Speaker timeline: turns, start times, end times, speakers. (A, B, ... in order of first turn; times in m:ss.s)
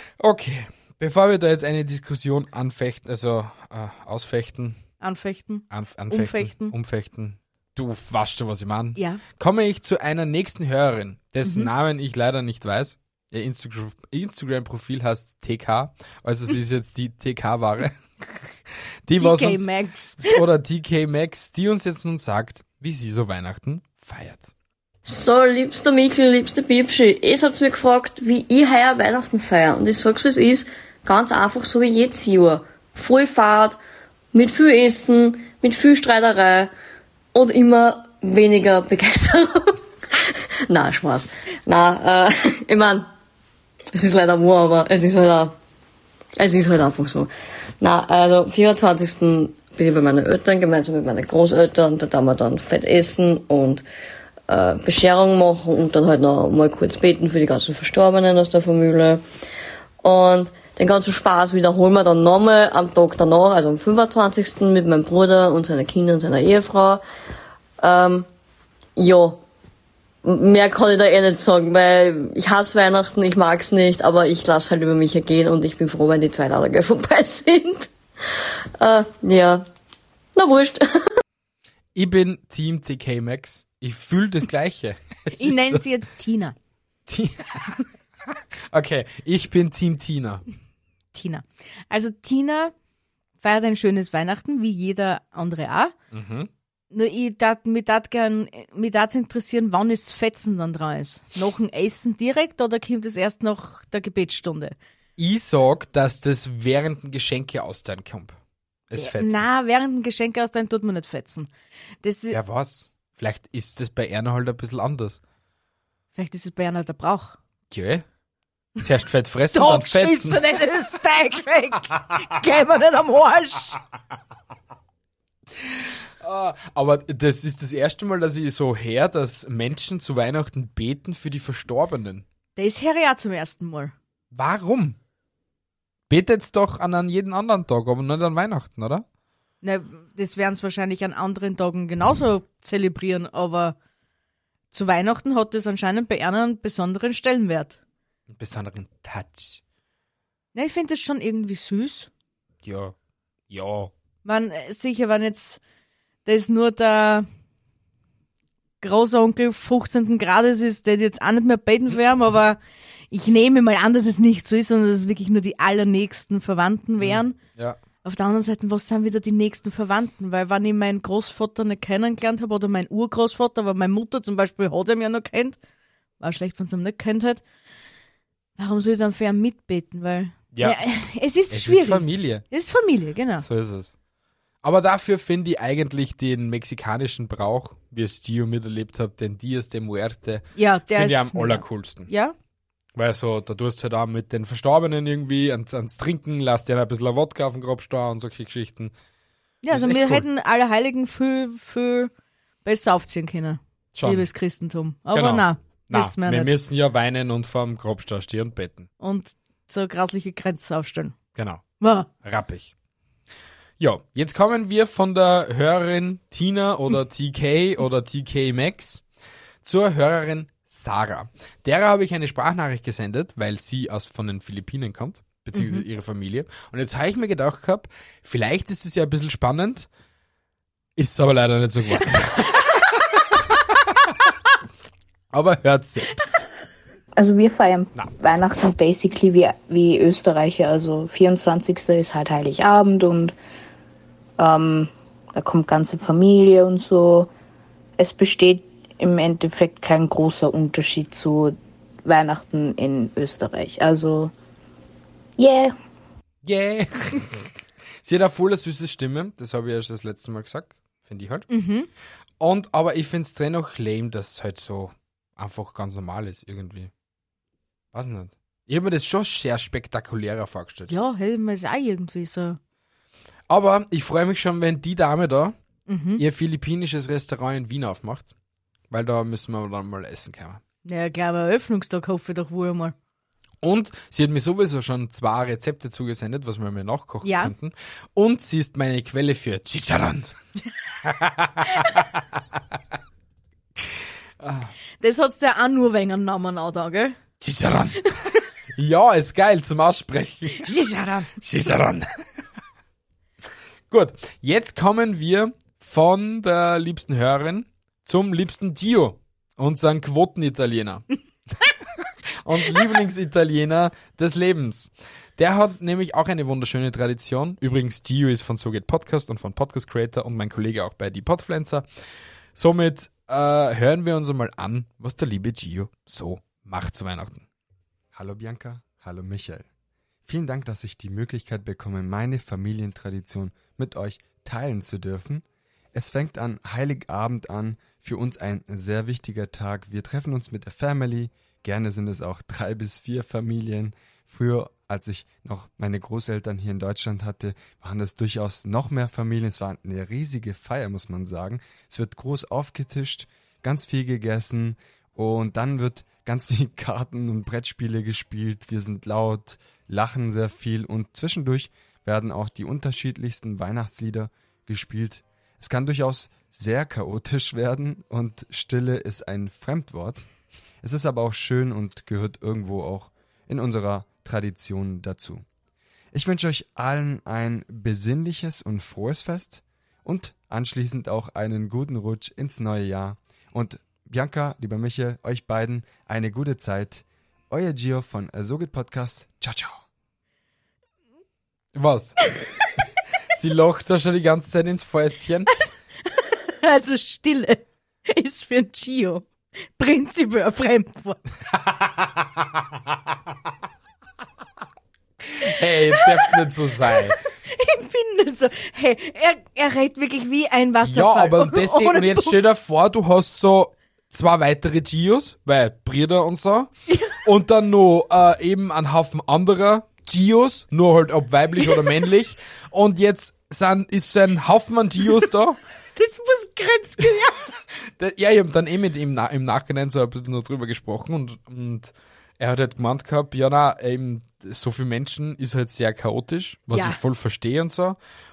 0:00.2-0:04.8 A
0:05.0-0:06.7 B
0:05.7-0:18.0 A
0:09.0-0:09.2 B
0:11.4-0:11.7 B
0:19.0-0:19.7 A
0:19.2-0:20.4 B
0:20.2-0:24.5 A
0:25.0-0:33.8 C
0:34.3-0:36.7 C
0:37.3-0:43.1 C
0:43.9-0:45.6 C
0:46.4-0:53.8 C
0:54.5-0:59.2 C
1:00.0-1:07.0 C
1:07.8-1:08.3 C
1:09.0-1:09.4 C
1:10.2-1:17.9 C
1:18.8-1:19.6 C
1:20.3-1:21.1 C
1:21.9-1:25.8 A
1:25.3-1:26.5 B
1:27.1-1:27.8 A
1:28.7-1:30.4 A
1:31.1-1:32.7 B
1:33.4-1:35.9 B
1:36.1-1:36.5 A
1:36.9-1:44.8 B
1:45.2-1:48.4 A
1:48.9-1:49.4 A
1:48.9-1:51.5 B
1:52.0-1:52.4 B
1:52.3-1:55.2 A
1:56.1-1:57.4 B
1:57.7-1:58.0 A
1:58.8-2:00.4 A
1:59.5-2:03.8 B
2:06.2-2:12.2 A
2:12.6-2:13.9 B
2:14.3-2:15.0 A
2:16.1-2:19.0 A
2:19.6-2:23.8 B
2:24.7-2:27.8 B
2:28.3-2:29.6 A
2:30.5-2:32.1 B
2:32.6-2:32.9 A
2:33.5-2:33.9 A
2:34.2-2:35.6 B
2:36.2-2:37.3 B
2:38.8-2:42.6 B
2:43.1-2:47.4 B
2:47.0-2:47.8 A
2:48.0-2:55.6 B
2:56.2-2:57.4 B
2:58.6-3:03.4 B
3:00.5-3:00.8 A
3:01.5-3:02.4 A
3:03.4-3:03.9 A
3:04.6-3:12.1 A
3:10.6-3:12.3 B
3:13.0-3:18.9 A
3:19.6-3:22.1 B
3:19.7-3:20.2 A
3:22.6-3:26.5 B
3:23.9-3:24.3 A
3:25.1-3:28.9 A
3:29.0-3:31.1 B
3:31.4-3:31.6 A
3:31.8-3:32.1 B
3:32.2-3:32.7 A
3:33.8-3:39.0 A
3:39.6-3:49.9 A
3:45.5-3:45.8 B
3:51.0-3:52.7 A
3:55.3-3:56.4 A
3:57.2-4:03.3 D
4:04.4-4:07.3 D
4:08.0-4:14.3 D
4:15.4-4:15.7 D
4:16.4-4:17.5 A
4:18.0-4:21.5 A
4:21.5-4:21.9 B
4:22.4-4:26.9 A
4:27.9-4:30.9 A
4:30.9-4:32.6 B
4:33.5-4:35.6 A
4:35.9-4:36.2 B
4:36.2-4:38.3 A
4:38.9-4:40.6 A
4:40.8-4:42.9 B
4:43.6-4:50.3 A
4:47.2-4:47.5 B
4:51.0-4:52.0 A
4:54.4-4:54.7 A
4:55.0-4:57.2 B
4:57.4-4:58.2 A
4:58.7-5:02.0 A
5:00.6-5:01.3 B
5:03.9-5:11.0 A
5:12.4-5:21.8 A
5:22.5-5:27.4 A
5:28.1-5:29.6 E
5:30.2-6:10.2 E
6:10.8-6:15.4 E
6:16.1-6:29.8 E
6:31.7-6:32.3 A
6:33.3-6:35.5 A
6:36.0-6:39.3 B
6:39.8-6:41.2 B
6:41.6-6:42.2 A
6:45.3-6:47.2 A
6:47.4-6:52.4 B
6:50.8-6:56.7 A
6:56.9-6:57.2 B
6:57.2-7:05.6 A
7:06.0-7:07.5 B
7:08.0-7:18.0 A
7:16.7-7:17.0 B